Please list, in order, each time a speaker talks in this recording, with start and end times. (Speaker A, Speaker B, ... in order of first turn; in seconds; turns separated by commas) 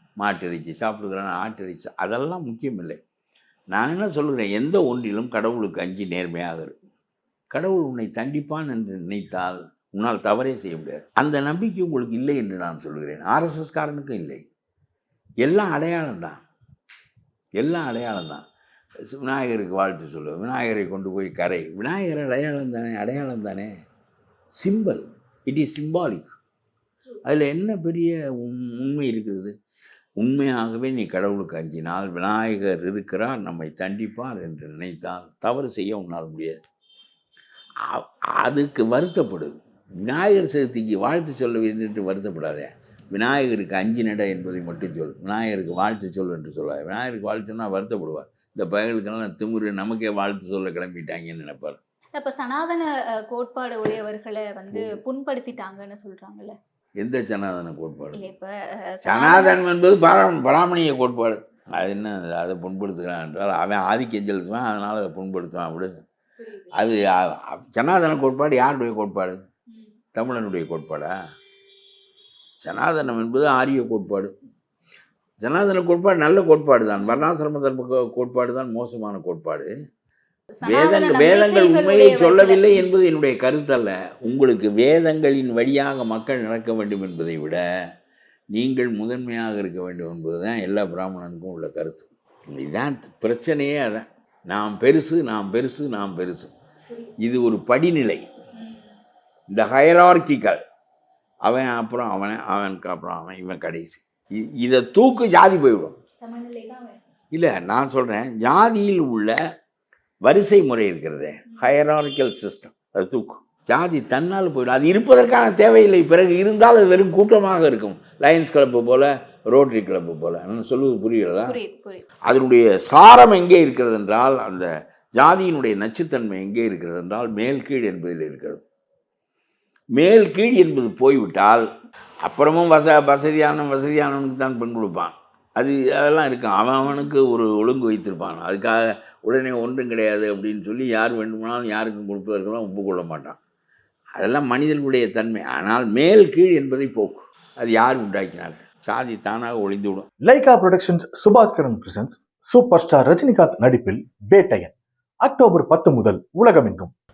Speaker A: 0.2-3.0, Speaker A: 3.7-6.7, Speaker A: 7.5-14.4, Speaker A: 15.4-16.4, Speaker A: 17.6-18.4, Speaker A: 19.0-23.7, Speaker A: 24.5-26.4, Speaker A: 27.2-29.5, Speaker A: 30.2-36.6, Speaker A: 37.8-51.8, Speaker B: 52.2-56.5, Speaker A: 54.7-55.0, Speaker A: 57.0-58.2, Speaker B: 58.1-59.6, Speaker A: 59.0-65.9, Speaker B: 66.4-66.9, Speaker A: 66.7-69.4, Speaker B: 69.7-70.0, Speaker A: 70.1-71.1, Speaker A: 72.6-74.3, Speaker A: 75.4-79.7, Speaker B: 80.6-82.9, Speaker A: 80.6-87.6, Speaker A: 88.5-96.5, Speaker A: 97.2-98.2, Speaker B: 98.5-98.9, Speaker A: 99.5-100.6, Speaker A: 101.4-106.0, Speaker B: 106.2-107.0, Speaker A: 107.3-109.3, Speaker A: 110.2-121.6, Speaker B: 111.5-111.8, Speaker B: 121.4-122.0, Speaker A: 122.2-128.6, Speaker A: 129.9-131.6, Speaker A: 132.2-143.4, Speaker A: 144.2-150.1, Speaker C: 150.2-156.9